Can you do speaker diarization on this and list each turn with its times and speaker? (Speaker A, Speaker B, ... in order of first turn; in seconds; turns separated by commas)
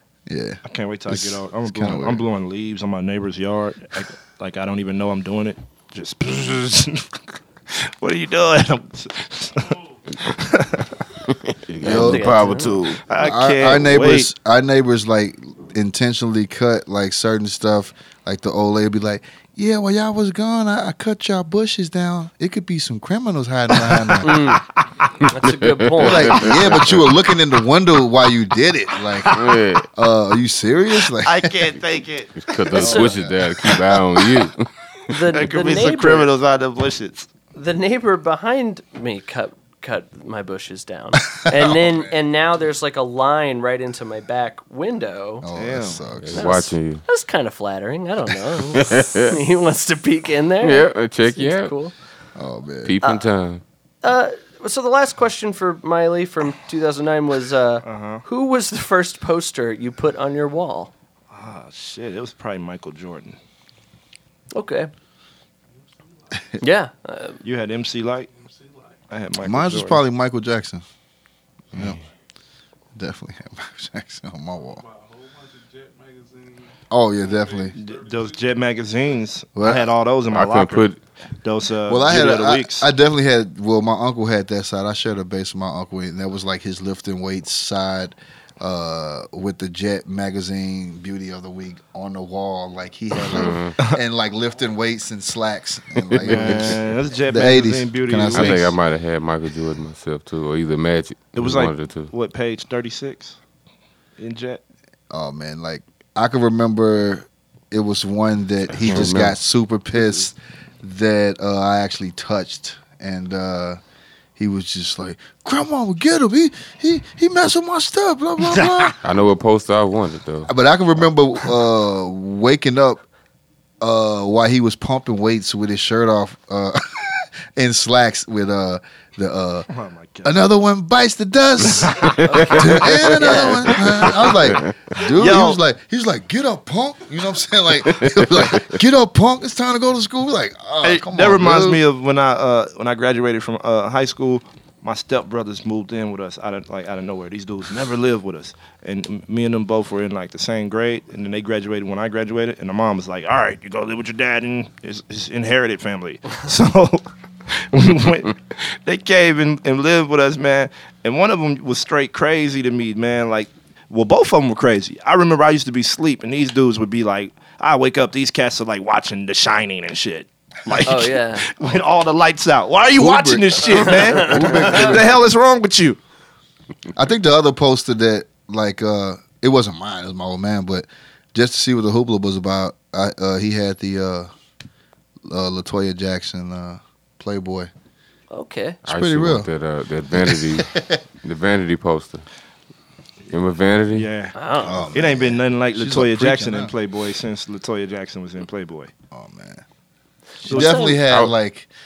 Speaker A: 0.3-2.2, Speaker B: 0.7-11.0, Speaker C: 11.4-13.0, Speaker A: 11.8-12.5, Speaker D: 11.8-12.8, Speaker B: 13.0-14.3, Speaker A: 13.2-24.6, Speaker B: 23.8-24.7, Speaker D: 24.2-24.7, Speaker D: 25.2-26.6, Speaker C: 25.5-27.1, Speaker A: 26.0-31.7, Speaker B: 29.2-29.6, Speaker C: 29.2-29.9, Speaker B: 31.1-32.9, Speaker C: 32.4-34.7, Speaker A: 32.7-33.6, Speaker D: 32.7-33.1, Speaker D: 35.1-36.3, Speaker B: 35.3-37.3, Speaker D: 37.5-45.5, Speaker A: 41.3-42.1, Speaker A: 45.4-46.5, Speaker B: 45.5-46.0, Speaker C: 46.2-47.0, Speaker D: 46.3-51.9, Speaker C: 48.7-49.4, Speaker C: 50.6-51.7, Speaker A: 52.4-53.0, Speaker C: 52.8-53.6, Speaker D: 54.0-60.9, Speaker B: 57.8-58.2, Speaker B: 61.3-63.4, Speaker D: 64.5-64.9, Speaker E: 65.7-66.6, Speaker D: 66.6-67.4, Speaker B: 67.4-68.3, Speaker E: 68.3-69.1, Speaker B: 69.1-70.0, Speaker A: 69.4-70.8, Speaker A: 71.7-72.0, Speaker A: 73.0-74.8, Speaker E: 74.7-78.7, Speaker A: 76.9-77.8, Speaker B: 77.8-80.9, Speaker A: 79.6-79.9, Speaker C: 80.3-81.0, Speaker B: 81.4-82.9, Speaker A: 81.9-98.8, Speaker C: 93.3-93.8, Speaker C: 96.2-96.7, Speaker B: 96.2-98.7, Speaker C: 98.3-102.1, Speaker B: 101.3-103.4, Speaker B: 104.2-104.6, Speaker A: 105.1-113.8, Speaker C: 108.8-109.4, Speaker A: 114.4-119.0, Speaker B: 118.5-118.9, Speaker C: 119.0-120.5, Speaker A: 120.5-123.0, Speaker A: 123.8-129.7, Speaker B: 129.7-130.4, Speaker A: 130.2-141.8, Speaker B: 131.7-132.6, Speaker C: 131.9-135.0, Speaker D: 132.2-133.8, Speaker B: 135.1-135.6, Speaker C: 138.0-138.3, Speaker B: 140.8-176.0, Speaker D: 170.8-171.5, Speaker A: 172.9-175.2, Speaker D: 173.8-174.9, Speaker A: 176.9-184.3, Speaker A: 185.2-187.7, Speaker D: 188.3-188.8, Speaker A: 188.8-189.5, Speaker C: 188.9-192.2, Speaker A: 190.1-191.0, Speaker C: 193.3-194.1, Speaker B: 193.9-194.4, Speaker D: 194.3-195.0, Speaker A: 194.6-196.7, Speaker B: 194.9-198.9, Speaker A: 199.1-199.6, Speaker A: 200.4-201.7, Speaker D: 200.4-201.0, Speaker B: 200.5-200.9, Speaker C: 201.1-201.3